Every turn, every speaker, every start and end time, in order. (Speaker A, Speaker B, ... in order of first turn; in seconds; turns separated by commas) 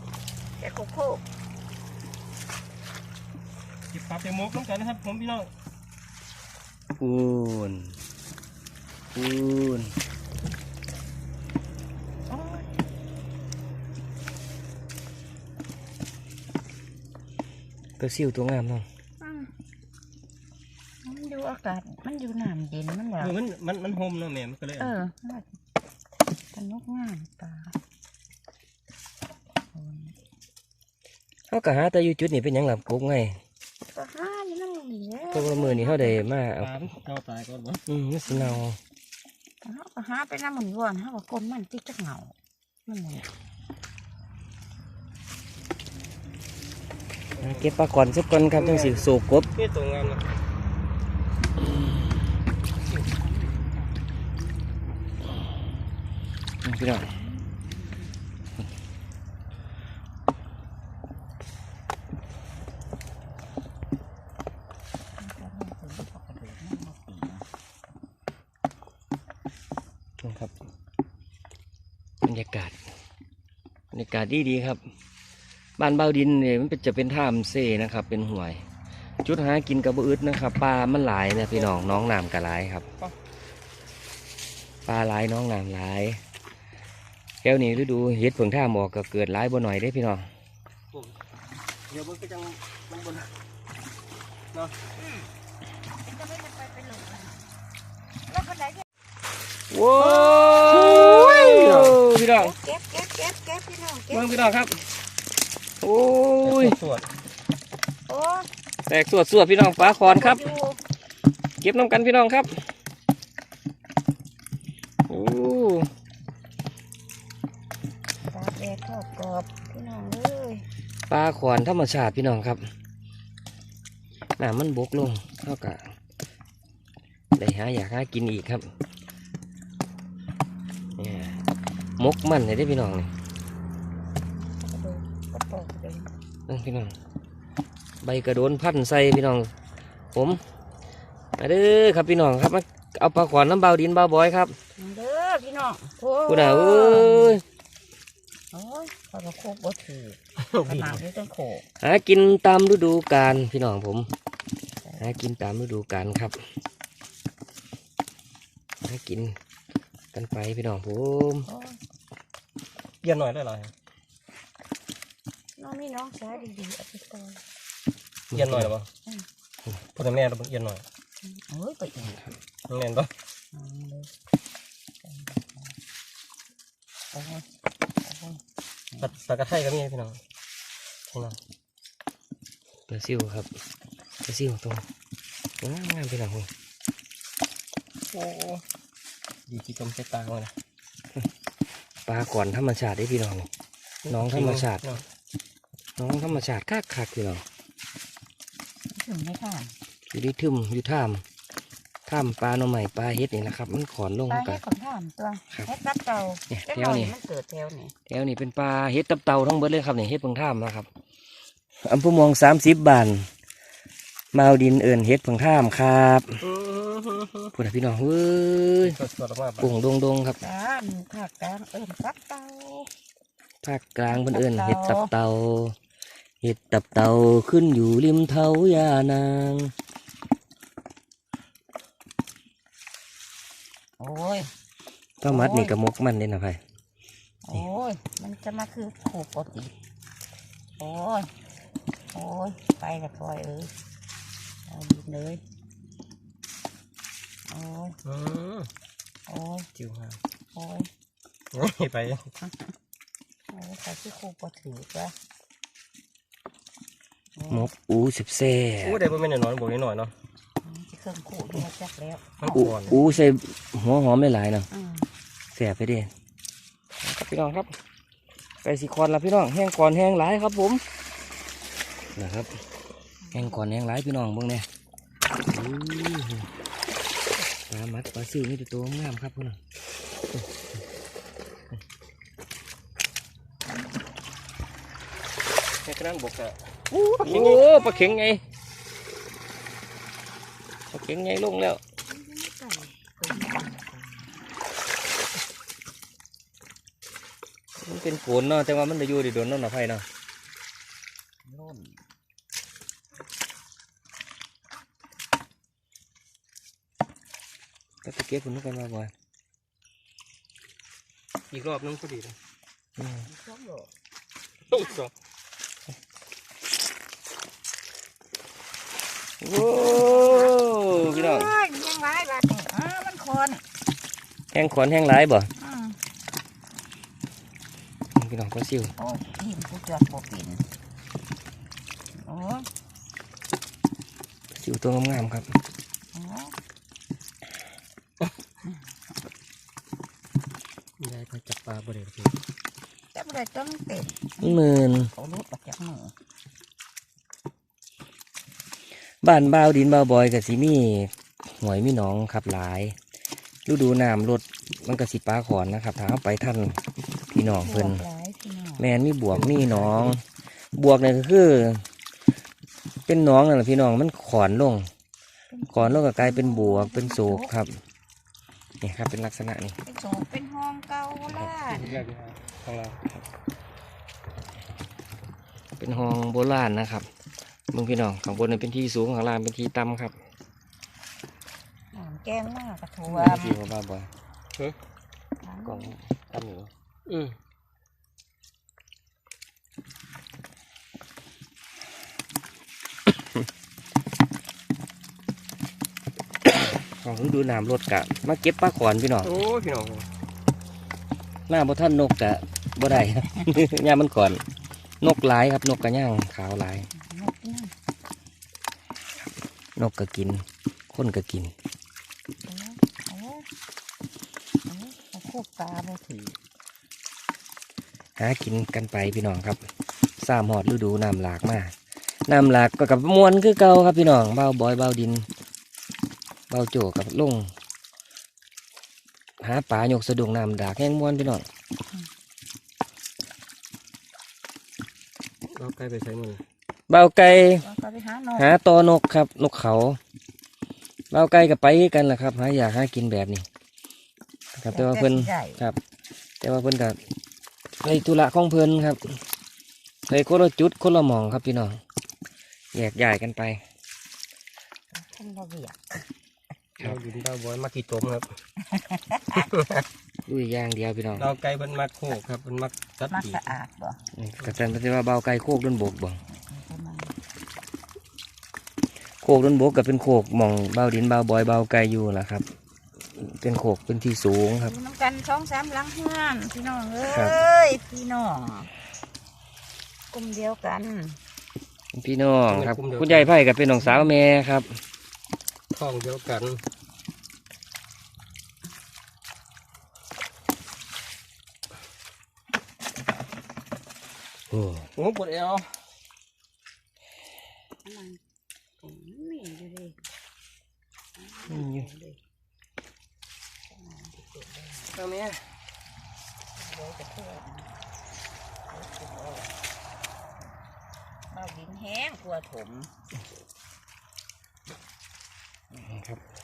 Speaker A: 0.6-1.2, Speaker B: 3.9-5.5, Speaker C: 7.0-8.0, Speaker C: 9.1-9.9, Speaker A: 12.3-12.8, Speaker C: 18.0-18.9, Speaker A: 19.2-19.5, Speaker A: 21.0-23.4, Speaker B: 23.2-25.0, Speaker A: 24.8-25.6, Speaker A: 26.5-27.8, Speaker A: 29.7-30.1, Speaker C: 31.5-33.4, Speaker A: 33.9-36.2, Speaker C: 35.3-36.8, Speaker B: 36.6-37.8, Speaker C: 37.9-38.8, Speaker A: 38.3-38.6, Speaker A: 39.6-42.4, Speaker A: 42.9-43.3, Speaker B: 47.4-47.7, Speaker C: 47.4-49.5, Speaker B: 48.5-50.3, Speaker A: 52.8-54.8, Speaker C: 56.6-57.1, Speaker A: 57.0-58.2, Speaker A: 65.2-67.5, Speaker C: 70.2-70.5, Speaker C: 72.2-72.8, Speaker C: 73.9-74.8, Speaker C: 75.8-78.6, Speaker C: 79.2-82.9, Speaker B: 81.5-82.0, Speaker C: 84.9-86.2, Speaker C: 87.4-90.3, Speaker B: 91.9-93.3, Speaker A: 95.0-95.3, Speaker A: 96.1-97.4, Speaker A: 98.3-98.8, Speaker C: 99.7-102.5, Speaker A: 99.9-101.5, Speaker B: 100.7-102.0, Speaker A: 102.3-104.3, Speaker C: 104.1-104.8, Speaker C: 105.8-106.8, Speaker B: 106.4-107.1, Speaker A: 108.1-108.5, Speaker C: 108.9-110.5, Speaker A: 109.8-110.8, Speaker C: 111.6-112.6, Speaker C: 115.1-115.9, Speaker A: 118.3-120.7, Speaker C: 121.1-122.6, Speaker C: 124.4-125.8, Speaker C: 127.4-128.7, Speaker C: 131.0-131.4, Speaker C: 132.0-133.1, Speaker A: 134.5-136.1, Speaker C: 136.5-136.9, Speaker C: 138.0-139.5, Speaker C: 140.1-140.4, Speaker C: 141.4-144.6, Speaker A: 144.8-147.4, Speaker C: 146.3-147.4, Speaker A: 148.5-151.6, Speaker B: 150.5-151.0, Speaker C: 151.8-154.1, Speaker A: 154.8-155.1, Speaker C: 155.0-156.4, Speaker C: 158.8-159.4, Speaker C: 160.1-161.5, Speaker A: 161.5-161.8, Speaker B: 163.0-163.7, Speaker A: 165.6-167.4, Speaker C: 168.3-168.7, Speaker B: 168.3-168.9, Speaker B: 169.9-170.8, Speaker A: 171.2-172.2, Speaker B: 172.7-173.1, Speaker A: 173.5-174.1, Speaker A: 175.0-175.7, Speaker A: 177.1-177.4, Speaker A: 178.0-178.4, Speaker B: 179.0-180.2, Speaker B: 181.1-181.4, Speaker C: 182.9-183.5, Speaker C: 184.3-184.8, Speaker C: 185.6-186.5, Speaker B: 188.1-188.6, Speaker B: 189.5-190.5, Speaker C: 192.1-193.5, Speaker B: 194.1-195.0, Speaker C: 194.1-195.0, Speaker C: 196.0-197.4, Speaker A: 198.9-199.7, Speaker C: 200.1-201.2, Speaker C: 202.1-204.6, Speaker A: 204.3-207.9, Speaker C: 206.5-207.1, Speaker C: 208.1-210.9, Speaker C: 211.8-213.3, Speaker C: 214.3-216.4, Speaker B: 216.4-217.5, Speaker C: 217.6-219.0, Speaker B: 218.8-219.8, Speaker C: 219.6-220.4, Speaker A: 220.4-222.9, Speaker C: 223.6-225.8, Speaker A: 224.1-225.1, Speaker C: 226.4-229.7, Speaker A: 234.0-234.5, Speaker C: 235.2-236.6, Speaker A: 235.3-235.7, Speaker A: 237.4-239.7, Speaker A: 240.8-241.3, Speaker A: 242.1-243.7, Speaker A: 244.7-245.4, Speaker A: 247.5-248.0, Speaker B: 248.1-248.7, Speaker A: 249.3-249.7, Speaker B: 249.8-250.2, Speaker A: 250.5-250.9, Speaker B: 251.5-252.3, Speaker A: 253.5-255.1, Speaker A: 257.4-257.7, Speaker C: 257.5-259.0, Speaker B: 258.8-260.1, Speaker A: 260.6-263.2, Speaker B: 262.4-263.0, Speaker C: 262.5-264.7, Speaker A: 264.7-265.1, Speaker C: 265.5-266.1, Speaker C: 267.0-267.7, Speaker C: 268.6-270.8, Speaker C: 272.2-272.5, Speaker A: 273.3-273.6, Speaker C: 273.3-274.7, Speaker C: 275.5-276.5, Speaker C: 277.7-279.6, Speaker B: 285.9-286.6, Speaker A: 286.9-288.2, Speaker C: 287.2-288.4, Speaker B: 287.2-287.6, Speaker C: 290.9-291.8, Speaker A: 292.1-293.9, Speaker C: 297.8-300.0, Speaker A: 301.4-302.0, Speaker C: 308.0-309.1, Speaker B: 311.5-312.4, Speaker C: 313.0-313.3, Speaker A: 313.2-313.9, Speaker B: 314.7-315.1, Speaker C: 319.4-321.5, Speaker A: 319.6-323.6, Speaker C: 324.5-325.5, Speaker A: 325.6-326.0, Speaker C: 328.2-328.9, Speaker A: 329.0-330.6, Speaker A: 332.2-332.7, Speaker C: 334.5-335.5, Speaker A: 336.1-336.6, Speaker B: 341.0-342.4, Speaker A: 343.1-346.1, Speaker C: 344.4-345.1, Speaker C: 349.2-352.9, Speaker C: 353.7-358.0, Speaker A: 357.3-358.9, Speaker C: 358.8-360.2, Speaker B: 359.3-360.2, Speaker C: 360.8-361.8, Speaker C: 363.1-364.9, Speaker A: 365.5-367.5, Speaker C: 365.7-367.7, Speaker C: 368.8-369.8, Speaker A: 369.9-371.9, Speaker B: 371.7-373.0, Speaker C: 375.8-377.1, Speaker C: 377.7-380.1, Speaker A: 381.9-383.6, Speaker C: 383.1-384.1, Speaker A: 385.4-385.9, Speaker C: 385.6-386.7, Speaker B: 387.1-387.4, Speaker C: 396.6-399.4, Speaker B: 399.2-400.1, Speaker C: 401.5-404.4, Speaker C: 405.0-406.9, Speaker A: 406.9-407.7, Speaker C: 409.8-411.5, Speaker A: 412.4-413.5, Speaker A: 414.7-416.4, Speaker C: 418.2-419.6, Speaker C: 420.2-421.7, Speaker C: 422.3-425.3, Speaker C: 426.5-427.5, Speaker C: 429.4-431.5, Speaker B: 435.5-436.4, Speaker C: 436.9-437.6, Speaker A: 437.6-438.6, Speaker C: 438.4-440.0, Speaker C: 441.1-443.4, Speaker C: 444.6-445.8, Speaker A: 444.7-445.6, Speaker C: 446.4-447.0, Speaker C: 447.8-449.2, Speaker C: 450.1-451.8, Speaker C: 452.7-453.6, Speaker A: 454.9-456.0, Speaker B: 456.8-458.3, Speaker A: 458.6-459.4, Speaker B: 459.4-459.9, Speaker C: 460.3-461.3, Speaker B: 461.2-463.5, Speaker A: 463.1-464.0, Speaker C: 464.1-466.2, Speaker A: 466.3-467.1, Speaker C: 469.2-472.5, Speaker C: 473.1-474.7, Speaker A: 474.5-478.7, Speaker C: 477.0-477.4, Speaker A: 480.1-481.2, Speaker C: 481.9-484.8, Speaker B: 482.5-483.3, Speaker B: 485.7-486.6, Speaker C: 494.5-494.9, Speaker B: 494.9-495.7, Speaker A: 497.9-498.2, Speaker A: 498.8-500.0, Speaker A: 501.2-502.2, Speaker C: 501.5-501.9, Speaker A: 503.7-505.0, Speaker B: 504.9-505.4, Speaker A: 506.6-507.8, Speaker A: 508.7-509.5, Speaker A: 511.3-512.9, Speaker C: 515.8-516.2